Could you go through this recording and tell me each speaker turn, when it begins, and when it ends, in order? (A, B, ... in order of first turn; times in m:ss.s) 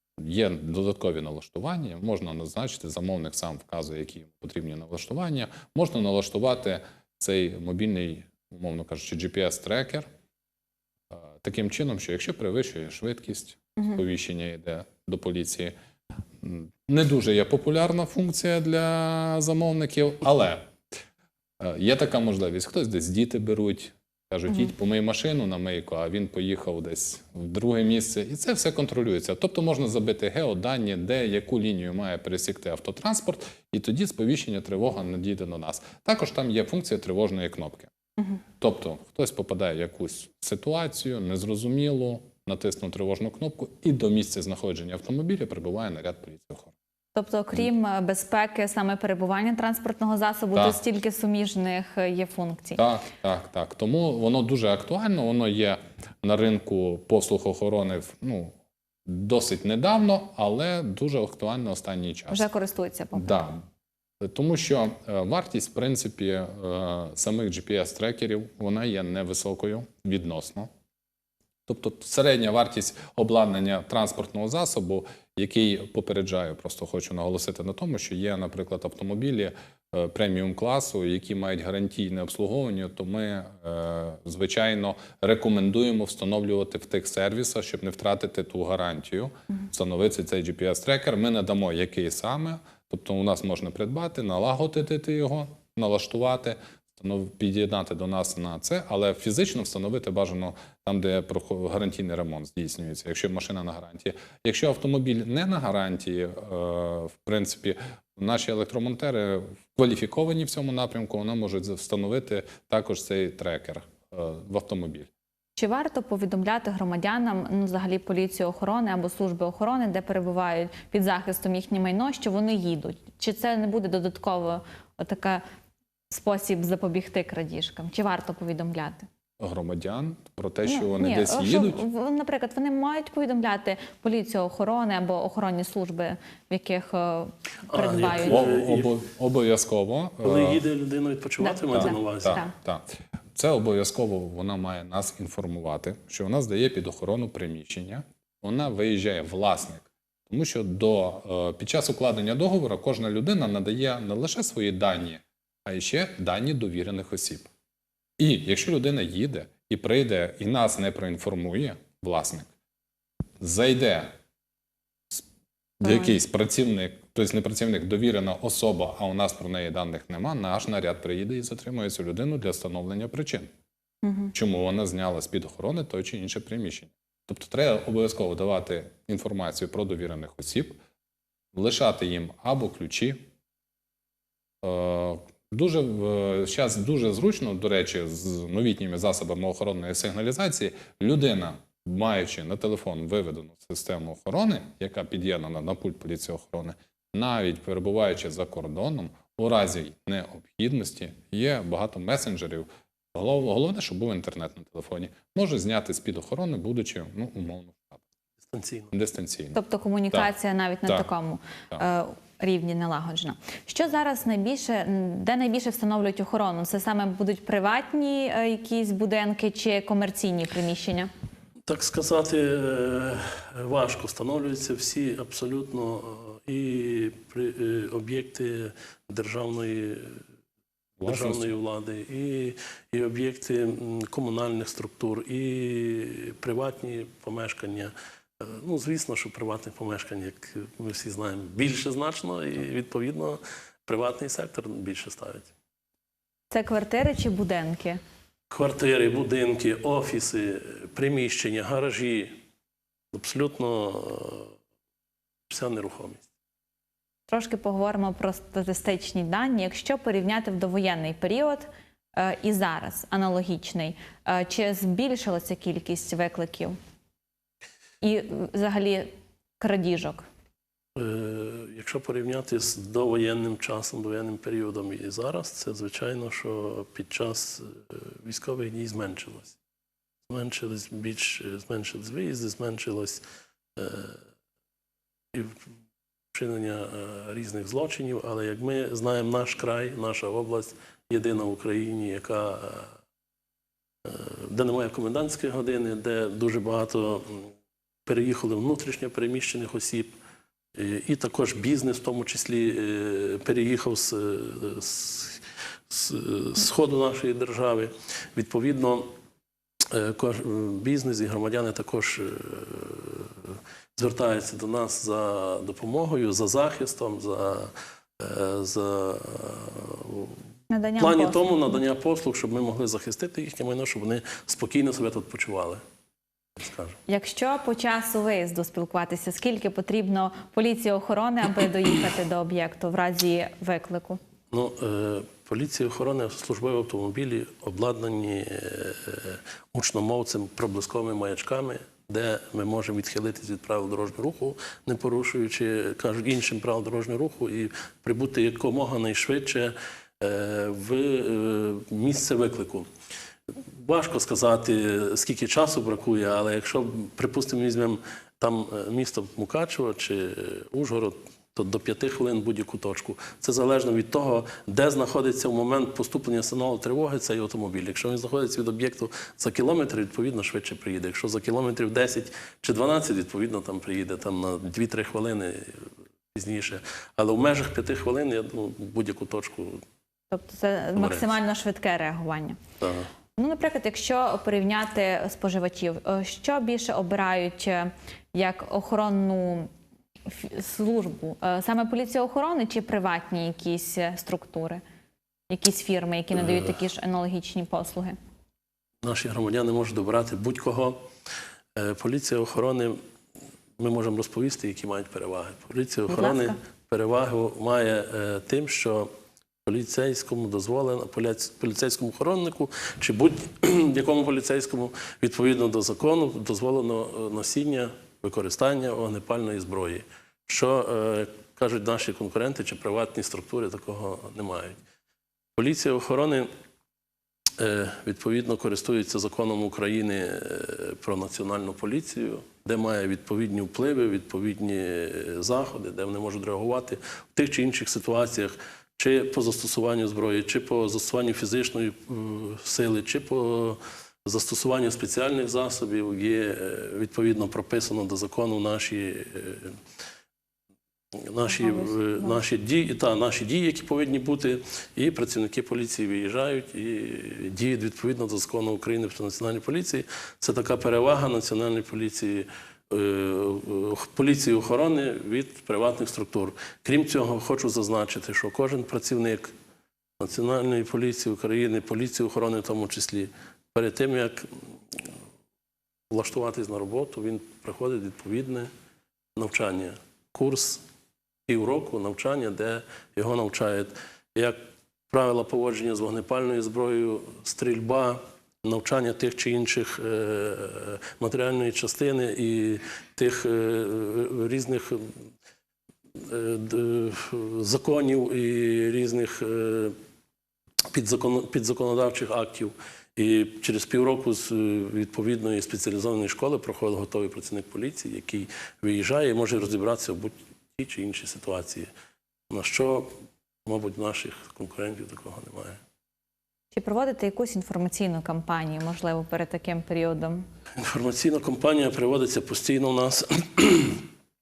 0:00.2-0:10.1 A
0:11.1-0:15.7 A
0:16.4-0:20.7 A
0:21.6-0:37.9 A
0:38.6-0:46.7 A
0:47.1-0:52.8 B
0:52.8-0:58.5 A
0:59.0-1:02.5 A
1:02.3-1:03.4 B
1:03.1-1:03.6 A
1:04.2-1:10.7 A
1:11.7-1:55.1 A
1:55.6-2:05.4 B
2:06.1-2:09.1 B
2:09.4-2:11.8 A
2:10.6-2:18.4 B
2:17.7-2:18.9 C
2:18.2-2:20.6 A
2:20.2-2:22.4 C
2:21.4-2:22.5 B
2:21.7-2:37.5 A
2:38.2-2:42.5 A
2:43.4-2:44.1 A
2:45.8-2:53.5 A
2:45.8-2:46.1 B
2:54.0-2:54.3 B
2:54.3-3:00.8 A
3:01.5-3:03.2 A
3:04.6-3:28.0 A
3:28.5-3:28.9 C
3:28.9-3:29.6 A
3:29.5-3:41.1 B
3:41.7-3:50.2 C
3:51.0-3:51.5 A
3:51.0-4:05.5 C
4:06.5-4:08.0 B
4:08.5-4:12.4 C
4:13.1-4:14.5 C
4:15.5-4:16.3 C
4:17.3-4:26.8 B
4:28.0-4:30.2 B
4:31.0-4:39.6 C
4:40.3-4:43.2 C
4:43.8-4:44.2 C
4:45.3-4:45.6 C
4:46.3-4:52.9 C
4:54.0-4:57.5 C
4:58.0-5:00.1 C
5:00.7-5:09.1 C
5:09.9-5:20.4 C
5:20.7-5:21.8 B
5:21.0-5:25.8 C
5:26.6-5:27.0 C
5:27.1-5:34.2 B
5:34.5-5:52.9 C
5:53.7-6:19.8 C
6:20.3-6:22.6 B
6:21.0-6:21.3 C
6:22.8-6:23.1 C
6:23.4-6:29.7 B
6:30.3-6:34.8 B
6:35.5-6:38.2 B
6:36.4-6:36.7 C
6:39.0-6:41.0 C
6:41.7-6:43.0 C
6:43.8-6:49.1 C
6:46.1-6:46.6 B
6:49.6-7:04.8 C
7:05.6-7:06.5 C
7:07.6-7:29.8 C
7:31.1-7:49.5 C
7:31.5-7:32.4 B
7:50.2-7:55.0 C
7:56.1-7:58.7 C
7:59.4-8:00.8 C
8:01.5-8:04.6 C
8:05.1-8:15.2 C
8:16.2-8:20.0 C
8:20.9-8:31.9 C
8:32.5-8:33.1 C
8:33.6-8:35.8 C
8:36.7-8:40.4 B
8:40.8-8:44.0 C